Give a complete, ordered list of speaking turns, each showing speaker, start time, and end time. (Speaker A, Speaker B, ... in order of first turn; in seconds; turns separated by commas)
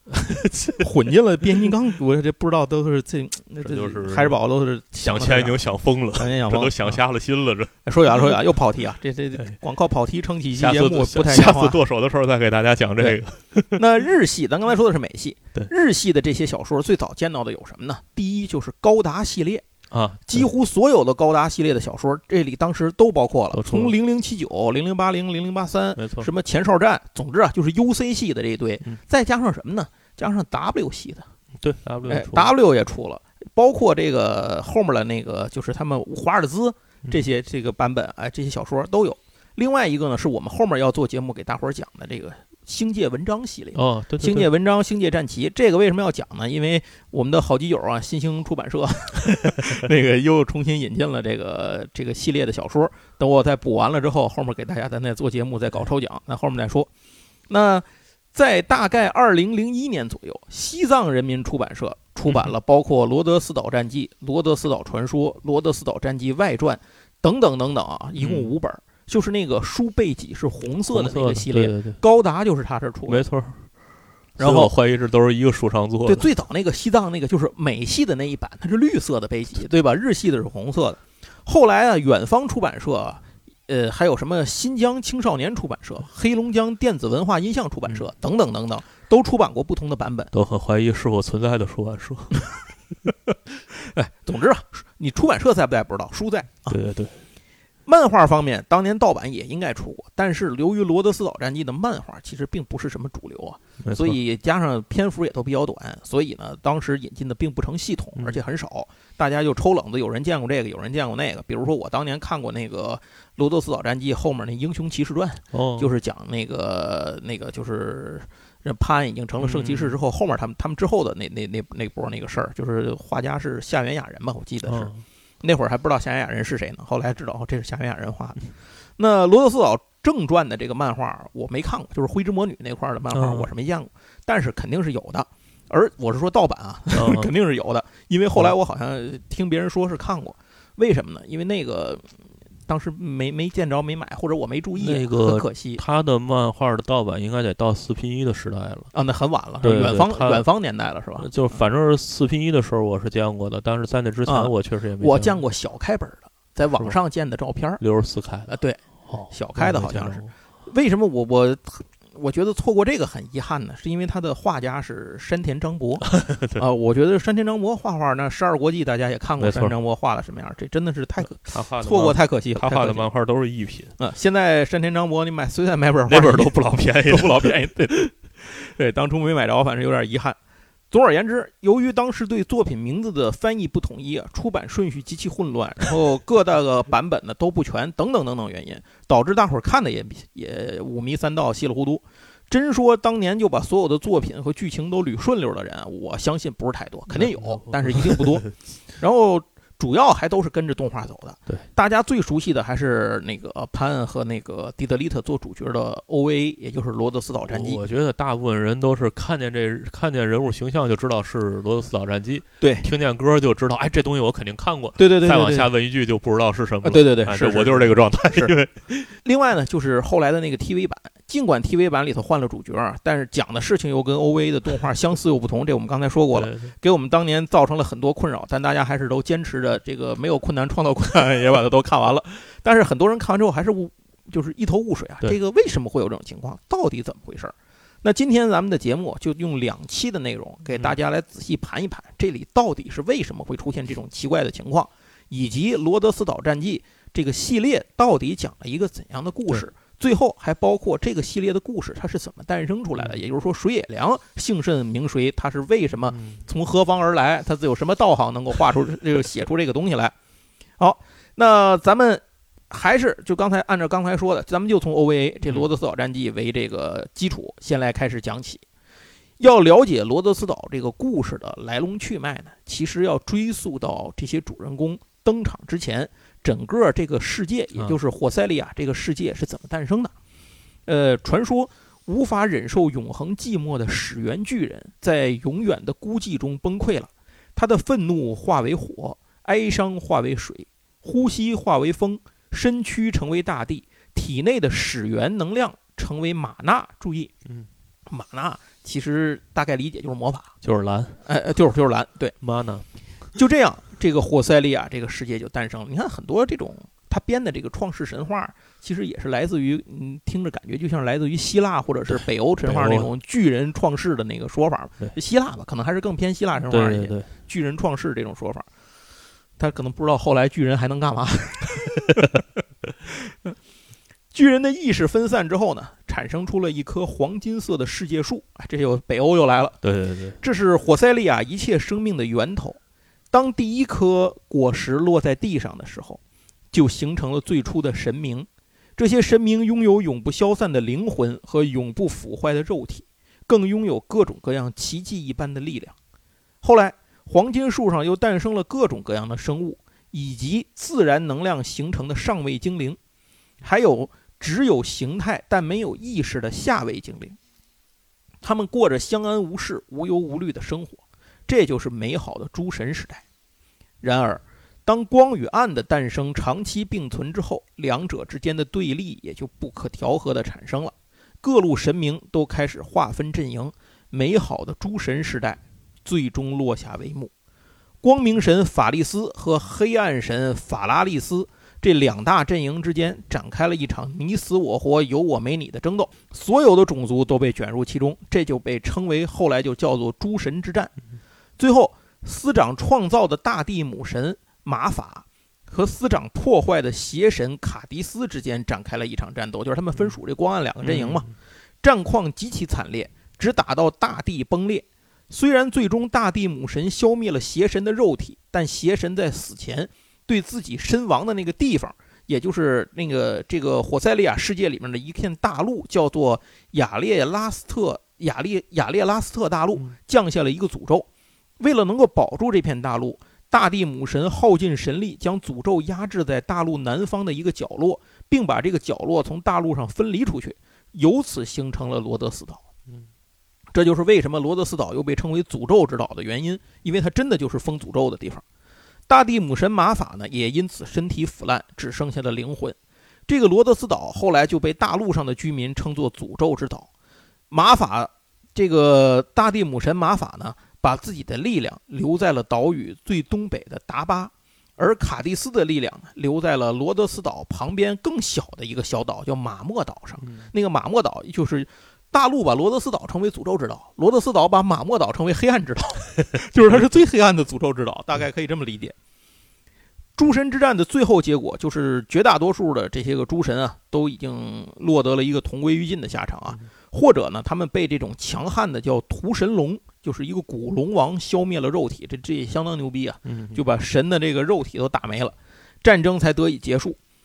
Speaker A: 0.3-0.8, Speaker B: 0.8-5.6, Speaker A: 3.6-4.4, Speaker A: 5.0-8.3, Speaker B: 6.1-7.0, Speaker B: 7.8-11.8, Speaker A: 10.6-13.8, Speaker B: 13.7-19.7, Speaker A: 19.9-20.5, Speaker B: 20.3-31.3, Speaker A: 23.5-23.9, Speaker A: 26.0-26.3, Speaker A: 31.6-32.5, Speaker B: 32.1-56.9, Speaker A: 43.8-44.5, Speaker B: 57.5-73.2, Speaker A: 68.2-68.5, Speaker A: 70.9-72.0, Speaker A: 73.1-73.7, Speaker B: 74.4-74.7, Speaker A: 74.4-76.3, Speaker B: 76.1-90.3, Speaker A: 90.3-92.4, Speaker B: 93.7-96.8, Speaker A: 96.7-97.2, Speaker B: 97.9-124.9, Speaker A: 103.8-104.2, Speaker A: 115.5-115.9, Speaker A: 119.4-120.0, Speaker A: 124.7-125.0, Speaker B: 125.4-145.8, Speaker A: 133.1-133.5, Speaker A: 136.9-137.3, Speaker A: 144.8-148.9, Speaker B: 148.9-151.3, Speaker A: 149.6-150.5, Speaker A: 151.2-155.4, Speaker B: 154.3-157.8, Speaker A: 157.8-160.3, Speaker B: 158.5-173.1, Speaker A: 166.1-166.6, Speaker A: 169.4-169.8, Speaker A: 171.3-173.9, Speaker B: 174.0-180.4, Speaker A: 176.1-177.5, Speaker B: 180.9-207.8, Speaker A: 197.1-198.5, Speaker A: 207.5-219.1, Speaker B: 212.6-212.9, Speaker B: 215.0-215.7, Speaker B: 216.8-218.6, Speaker B: 219.1-260.1, Speaker A: 226.3-226.7, Speaker A: 240.7-241.0, Speaker A: 256.1-256.4, Speaker B: 260.8-268.6, Speaker A: 265.4-265.7, Speaker B: 269.4-280.1, Speaker B: 280.9-297.3, Speaker B: 298.1-300.5, Speaker A: 300.6-301.2, Speaker B: 301.2-302.4, Speaker A: 302.4-302.9, Speaker B: 303.3-318.7, Speaker A: 312.1-313.1, Speaker A: 316.7-317.3, Speaker B: 319.6-322.3, Speaker B: 323.1-323.6, Speaker B: 324.3-329.8, Speaker A: 329.8-330.4, Speaker B: 330.4-332.8, Speaker B: 333.3-336.2, Speaker B: 336.7-345.9, Speaker B: 346.6-353.0, Speaker B: 353.6-357.4, Speaker B: 358.4-363.2, Speaker B: 364.0-377.3, Speaker B: 378.0-390.9, Speaker B: 391.6-401.3, Speaker A: 400.8-401.3, Speaker B: 401.8-421.1, Speaker B: 421.6-432.6, Speaker B: 433.7-438.4, Speaker B: 439.1-442.8, Speaker B: 443.3-446.9, Speaker B: 447.5-468.9, Speaker A: 460.2-460.5, Speaker B: 470.2-487.0, Speaker A: 483.2-483.6